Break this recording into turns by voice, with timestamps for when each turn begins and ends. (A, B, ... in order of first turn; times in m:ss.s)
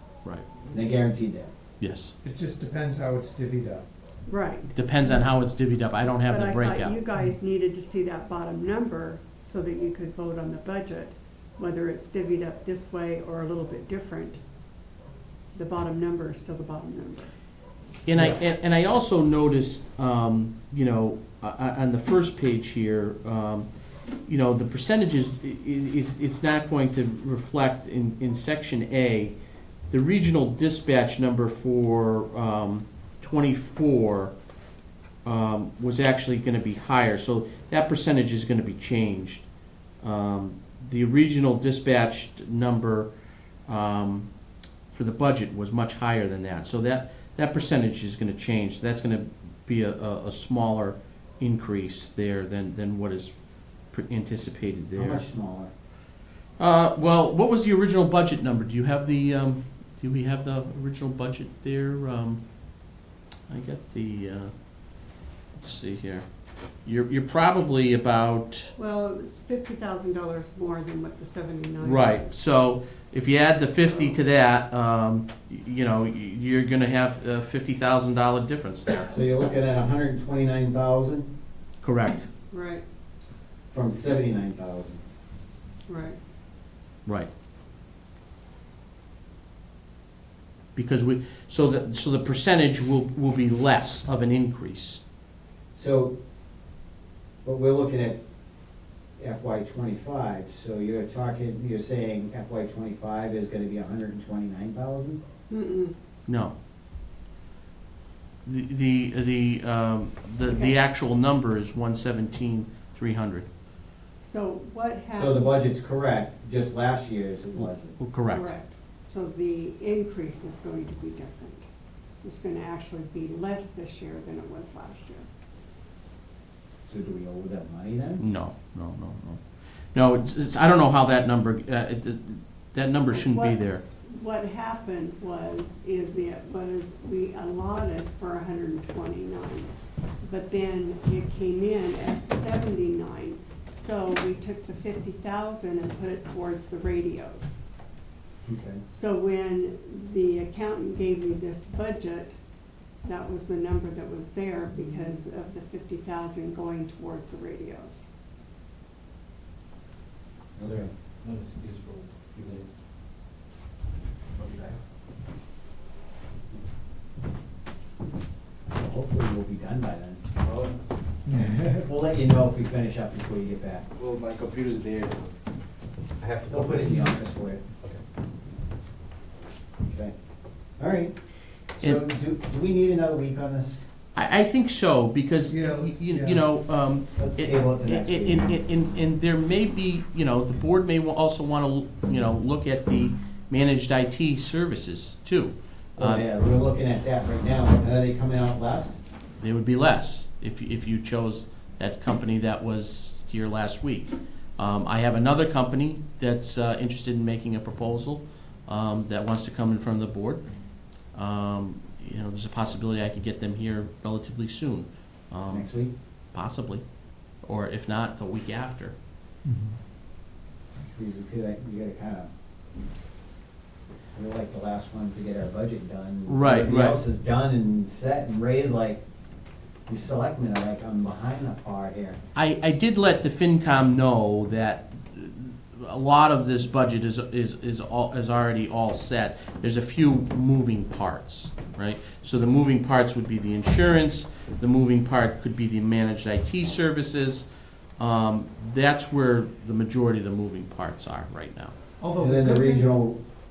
0:00.7-0:01.5 A
0:01.8-0:02.1 B
0:02.2-0:03.8 C
0:04.2-0:05.2 D
0:04.7-0:07.0 B
0:06.2-0:14.4 D
0:15.5-0:17.3 D
0:18.0-0:23.7 B
0:24.2-0:29.3 B
0:29.9-0:34.3 B
0:35.2-0:39.4 B
0:40.0-0:43.1 B
0:43.7-0:44.3 B
0:44.9-0:53.3 B
0:53.9-0:55.2 B
0:54.9-0:55.7 A
0:56.6-1:02.4 B
1:03.5-1:06.2 B
1:06.8-1:08.7 B
1:08.8-1:12.3 D
1:11.8-1:19.2 B
1:19.0-1:21.3 A
1:21.8-1:22.3 B
1:22.5-1:22.8 D
1:23.7-1:25.0 A
1:25.9-1:26.2 D
1:30.7-1:35.0 B
1:35.7-1:36.1 A
1:37.4-1:38.2 A
1:39.2-1:45.2 A
1:45.5-1:46.0 D
1:46.3-1:46.5 B
1:48.4-1:53.5 B
1:50.5-1:50.7 D
1:54.2-1:55.5 D
1:55.1-1:58.0 A
1:57.6-1:58.5 B
1:58.3-2:01.7 D
2:02.2-2:05.2 D
2:06.9-2:08.2 A
2:08.2-2:09.4 B
2:09.9-2:13.8 B
2:13.1-2:27.5 D
2:28.4-2:28.8 A
2:28.9-2:32.3 D
2:33.0-2:38.0 D
2:40.6-2:40.9 A
2:40.6-2:42.7 E
2:44.3-2:44.8 E
2:48.7-2:50.2 A
2:50.4-2:50.8 E
2:51.3-2:51.6 C
2:51.3-2:53.8 A
2:53.9-2:55.4 E
2:56.2-2:57.0 E
2:56.5-2:57.6 A
2:59.8-3:00.1 A
3:00.8-3:01.1 A
3:01.8-3:03.8 A
3:04.1-3:16.2 B
3:05.5-3:06.4 C
3:07.2-3:08.5 A
3:16.0-3:19.0 A
3:19.4-3:30.4 B
3:31.1-3:35.7 B
3:35.5-3:35.9 A
3:36.3-3:36.8 B
3:37.4-3:38.9 B
3:39.4-3:39.8 C
3:40.9-3:42.3 A
3:44.1-3:49.0 A
3:46.3-3:47.0 B
3:49.9-3:52.2 A
3:52.3-4:07.4 B
4:08.0-4:11.7 B
4:12.0-4:12.9 C
4:12.2-4:13.2 A